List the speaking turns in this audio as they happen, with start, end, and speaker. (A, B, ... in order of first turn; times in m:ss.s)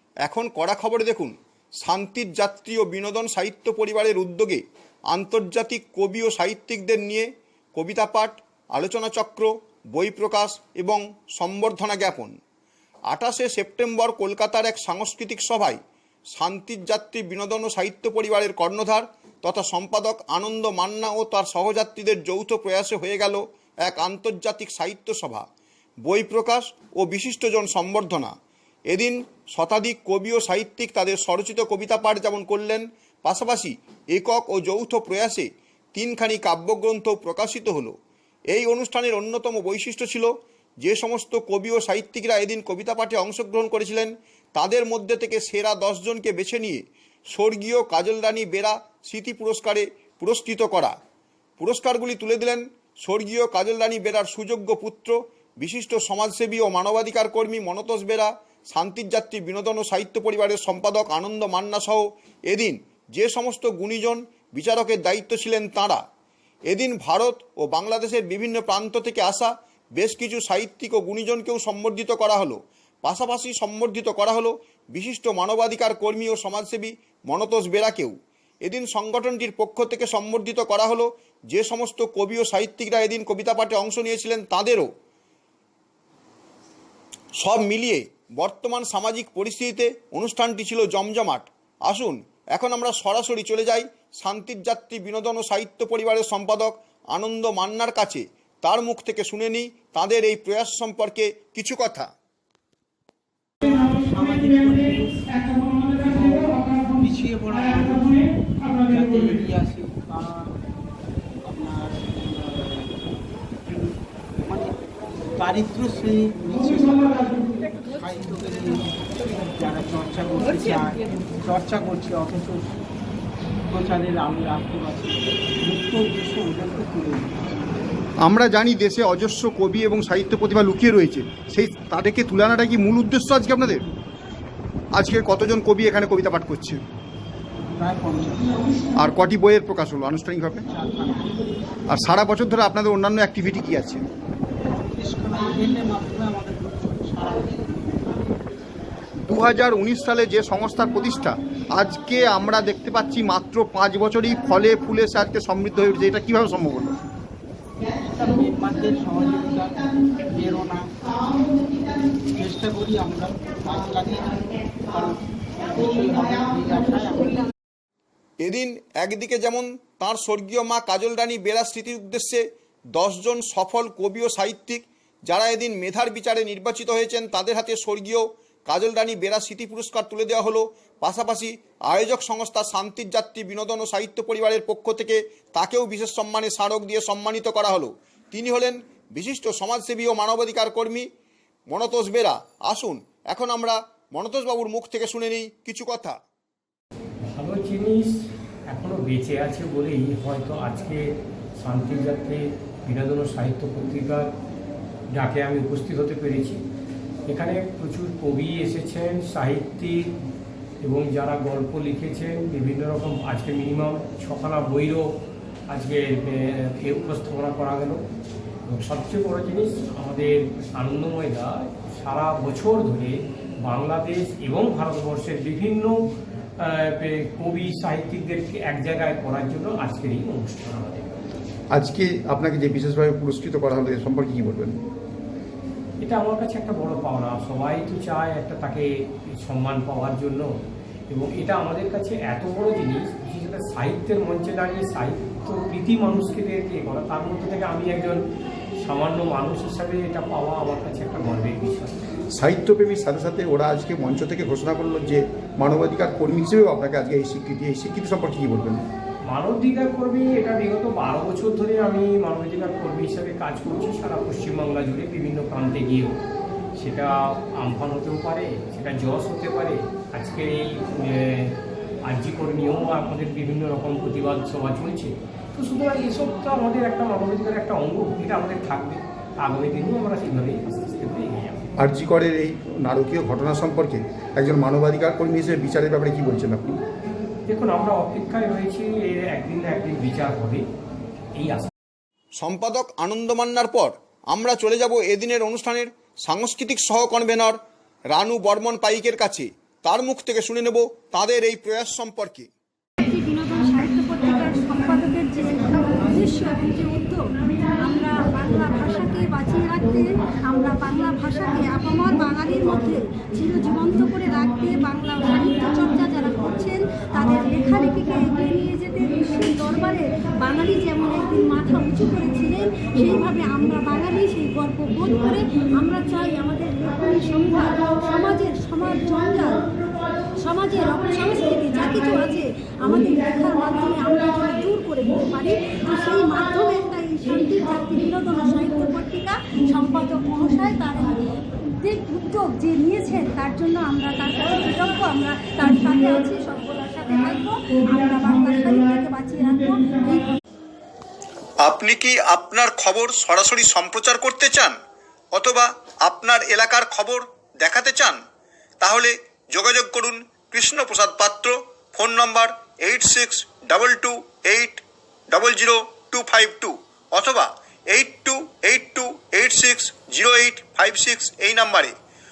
0:00.2-0:12.4 A
0:13.1-0:15.8 A
0:16.4-0:25.5 A
0:26.0-0:28.3 A
0:28.9-0:37.9 A
0:38.5-0:40.3 A
0:40.8-0:46.8 A
0:47.3-0:50.9 A
0:51.6-1:06.0 A
1:06.7-1:24.9 A
1:27.4-1:42.1 A
1:43.6-1:50.6 B
1:51.4-1:53.0 B
1:53.6-1:54.7 B
1:55.3-2:02.8 B
2:03.6-2:07.9 B
2:08.2-2:13.8 A
2:14.9-2:16.8 A
2:17.7-2:18.6 B
2:19.0-2:20.6 A
2:20.6-2:21.2 B
2:21.9-2:24.0 A
2:24.8-2:28.0 B
2:29.3-2:36.9 A
2:38.1-2:40.8 B
2:42.4-2:45.2 B
2:45.7-2:47.5 B
2:48.4-2:52.4 A
2:52.9-3:11.0 A
3:11.7-3:16.2 A
3:17.2-3:18.1 C
3:18.7-3:24.3 C
3:25.1-3:26.6 C
3:27.3-3:30.1 C
3:30.8-3:35.1 C
3:35.7-3:38.0 C
3:38.7-3:45.9 C
3:46.6-3:51.2 C
3:51.7-3:54.8 A
3:56.0-4:00.5 C
4:01.1-4:08.2 C
4:08.8-4:12.1 C
4:12.4-4:18.8 A
4:19.3-4:26.2 C
4:26.8-4:41.7 C
4:41.8-4:46.8 A
4:47.5-4:50.6 C
4:51.3-4:51.7 C
4:52.4-4:57.6 A
4:58.1-5:02.5 A
5:03.0-5:29.6 D
5:30.4-5:50.4 D
5:51.6-5:54.7 A
5:55.3-5:58.2 A
5:58.8-6:11.9 A